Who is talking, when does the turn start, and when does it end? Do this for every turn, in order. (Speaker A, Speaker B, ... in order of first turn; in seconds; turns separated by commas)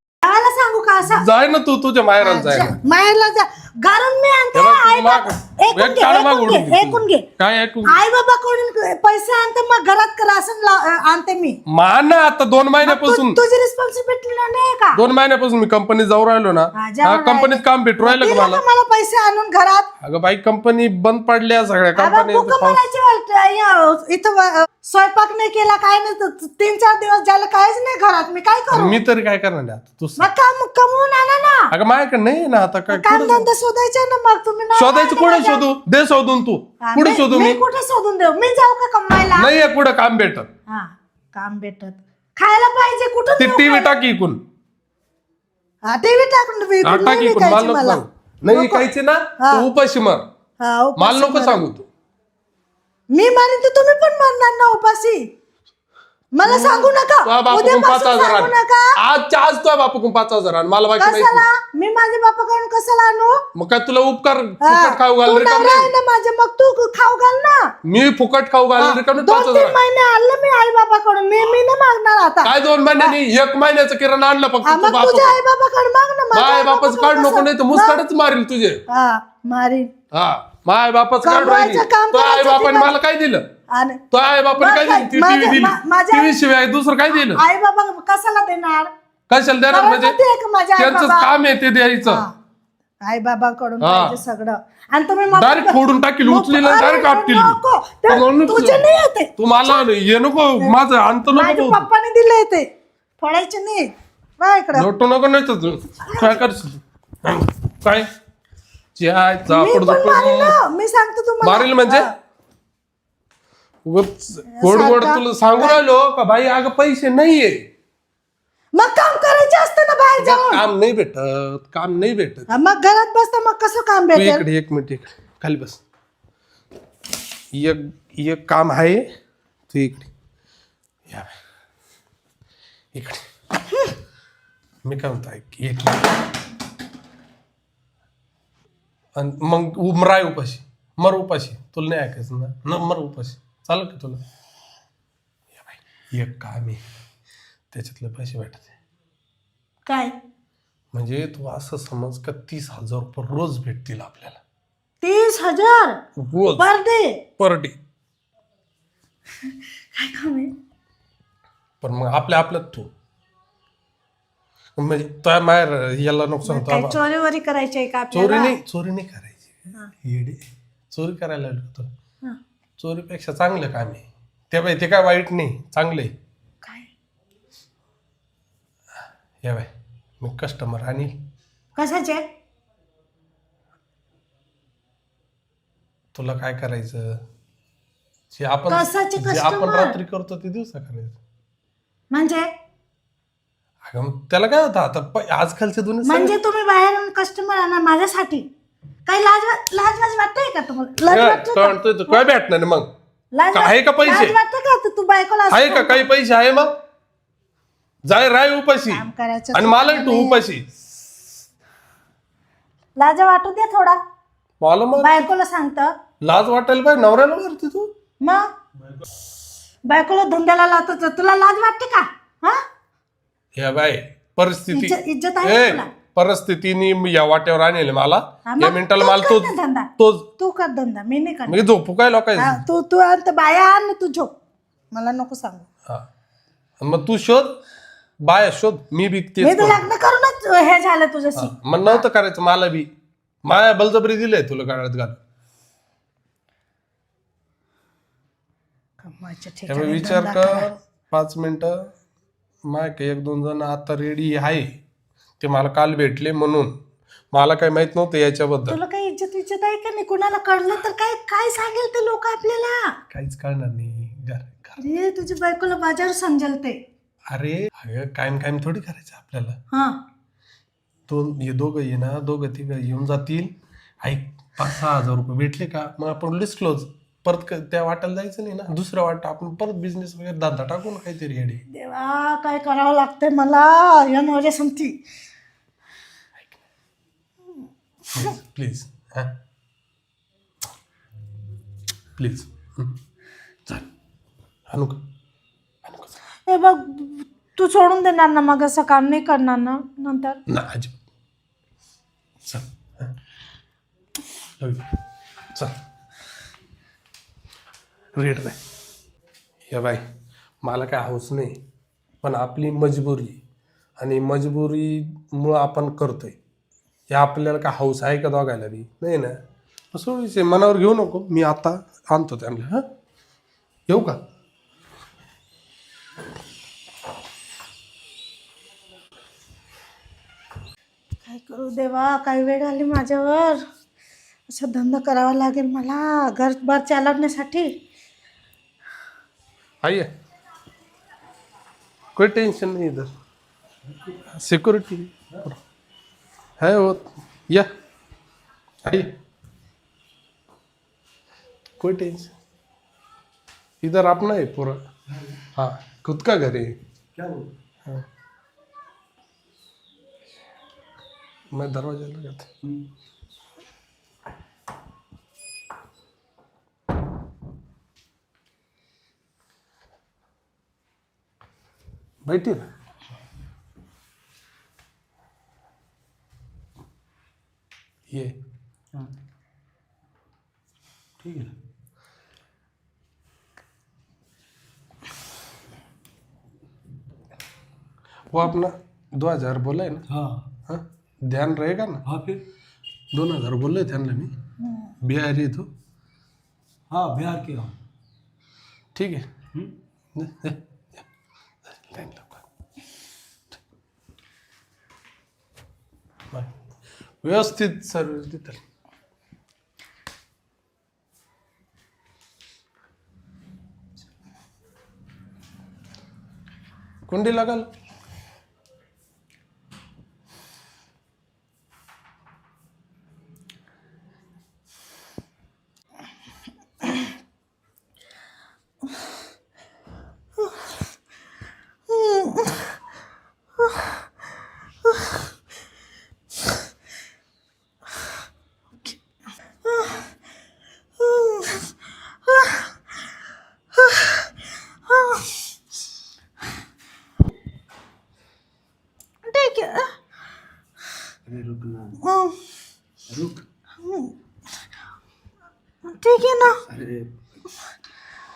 Speaker A: 0.2-1.2, Speaker B: 1.1-2.8, Speaker A: 2.2-7.2, Speaker B: 4.5-8.0, Speaker A: 7.9-11.6, Speaker B: 11.7-13.4, Speaker A: 12.8-15.0, Speaker B: 14.9-18.6, Speaker A: 16.8-19.9, Speaker B: 20.0-22.8, Speaker A: 22.0-29.0, Speaker B: 28.7-30.3, Speaker A: 30.2-31.7, Speaker B: 31.7-33.5, Speaker A: 32.9-35.6, Speaker B: 34.8-37.6, Speaker A: 36.8-39.5, Speaker B: 39.4-40.5, Speaker A: 40.7-44.0, Speaker B: 43.4-44.4, Speaker A: 45.9-48.9, Speaker B: 46.8-50.3, Speaker A: 49.4-49.6, Speaker A: 50.6-51.7, Speaker B: 51.0-51.9, Speaker A: 53.1-55.2, Speaker A: 56.4-58.9, Speaker B: 56.4-61.5, Speaker A: 61.0-63.4, Speaker B: 63.5-65.9, Speaker A: 64.6-67.7, Speaker B: 67.8-69.8, Speaker A: 68.8-73.2, Speaker B: 72.4-75.4, Speaker A: 74.7-78.0, Speaker B: 76.3-78.8, Speaker A: 78.9-79.9, Speaker B: 80.1-83.5, Speaker A: 81.2-83.0, Speaker A: 83.7-84.0, Speaker B: 84.1-87.4, Speaker A: 84.6-86.4, Speaker A: 87.1-88.9, Speaker B: 89.3-90.2, Speaker A: 89.7-91.3, Speaker B: 90.8-92.2, Speaker A: 92.1-92.3, Speaker A: 93.0-99.9, Speaker B: 93.8-94.2, Speaker B: 95.3-98.9, Speaker B: 99.4-101.9, Speaker A: 101.3-102.7, Speaker A: 103.2-103.9, Speaker A: 104.4-104.9, Speaker B: 104.7-108.1, Speaker A: 106.1-106.4, Speaker B: 109.0-110.6, Speaker A: 109.5-112.1, Speaker B: 111.4-112.1, Speaker B: 113.9-117.6, Speaker A: 114.5-115.8, Speaker A: 118.8-120.6, Speaker B: 120.2-122.5, Speaker A: 122.5-124.5, Speaker B: 124.1-125.8, Speaker B: 127.5-129.1, Speaker B: 129.7-130.1, Speaker B: 131.1-131.3, Speaker B: 132.9-133.2, Speaker B: 134.8-136.2, Speaker B: 139.2-144.2, Speaker B: 145.6-146.8, Speaker B: 147.7-148.7, Speaker A: 149.8-150.2, Speaker B: 150.9-154.4, Speaker A: 155.0-156.0, Speaker B: 156.2-156.7, Speaker A: 156.6-157.2, Speaker B: 157.4-157.8, Speaker A: 159.9-160.5, Speaker B: 161.8-162.9, Speaker B: 164.8-167.0, Speaker A: 166.5-168.6, Speaker B: 168.1-170.4, Speaker B: 170.9-171.9, Speaker B: 172.8-176.1, Speaker A: 176.6-176.9, Speaker B: 179.4-179.7, Speaker B: 180.2-181.1, Speaker A: 181.8-182.2, Speaker B: 186.1-187.2, Speaker B: 188.3-191.2, Speaker A: 188.7-190.0, Speaker A: 192.1-192.5, Speaker B: 193.9-196.3, Speaker A: 196.0-198.5, Speaker A: 199.1-202.2, Speaker B: 201.1-202.9, Speaker A: 203.3-206.1, Speaker B: 203.5-204.4, Speaker B: 205.5-206.7, Speaker B: 208.1-209.0, Speaker A: 208.9-210.4, Speaker B: 209.5-210.7, Speaker A: 213.0-214.0, Speaker B: 214.6-215.3, Speaker A: 215.0-215.9, Speaker B: 216.2-217.9, Speaker A: 219.9-222.6, Speaker B: 223.6-230.2, Speaker A: 224.7-225.9, Speaker A: 228.5-231.6, Speaker B: 231.5-232.6, Speaker A: 232.4-234.3, Speaker A: 234.9-235.7, Speaker B: 236.8-237.6, Speaker B: 238.3-239.9, Speaker A: 239.4-242.0, Speaker B: 241.4-242.9, Speaker B: 243.4-245.2, Speaker A: 249.0-250.7, Speaker B: 249.7-251.8, Speaker B: 252.7-254.7, Speaker B: 255.4-256.7, Speaker B: 257.3-258.8, Speaker A: 258.7-262.9, Speaker B: 263.1-264.8, Speaker A: 264.8-266.8, Speaker B: 267.3-269.6, Speaker A: 269.7-270.0, Speaker B: 271.1-281.6, Speaker A: 281.7-285.0, Speaker B: 288.1-289.3, Speaker B: 292.2-292.9, Speaker B: 294.7-295.0, Speaker B: 295.9-296.1, Speaker A: 296.5-300.4, Speaker B: 300.5-300.9, Speaker B: 302.5-303.1, Speaker B: 304.6-304.9, Speaker B: 308.2-308.6, Speaker B: 309.7-310.0, Speaker B: 310.6-311.6, Speaker B: 312.2-313.4, Speaker B: 314.0-316.4, Speaker B: 317.1-319.4, Speaker B: 319.9-322.9, Speaker B: 323.9-324.2, Speaker A: 331.2-333.6, Speaker A: 334.5-337.7, Speaker B: 339.8-340.1, Speaker B: 342.1-343.1, Speaker C: 343.9-344.2, Speaker B: 344.3-345.6, Speaker B: 346.6-347.7, Speaker B: 348.9-349.1, Speaker B: 351.8-352.3, Speaker B: 353.8-354.8, Speaker C: 355.1-355.4, Speaker B: 355.6-356.8, Speaker C: 357.1-357.5, Speaker B: 361.5-362.5, Speaker B: 372.2-372.7, Speaker C: 381.2-381.5, Speaker B: 388.3-390.1, Speaker C: 390.1-390.5, Speaker B: 390.7-392.0, Speaker C: 392.1-392.4, Speaker B: 393.1-394.3, Speaker A: 394.6-394.9, Speaker B: 395.0-395.7, Speaker C: 396.9-397.8, Speaker B: 398.9-399.2, Speaker B: 400.2-401.1, Speaker B: 401.7-402.4, Speaker B: 407.2-408.6, Speaker B: 417.1-417.7, Speaker A: 431.9-432.6, Speaker A: 439.6-440.1, Speaker A: 441.0-441.7, Speaker A: 442.3-442.6, Speaker A: 443.8-444.2, Speaker A: 444.9-445.3, Speaker A: 449.2-449.9, Speaker C: 451.3-452.0, Speaker A: 452.0-452.4, Speaker C: 453.1-453.4, Speaker A: 453.8-454.1, Speaker A: 455.9-456.6, Speaker C: 456.7-457.1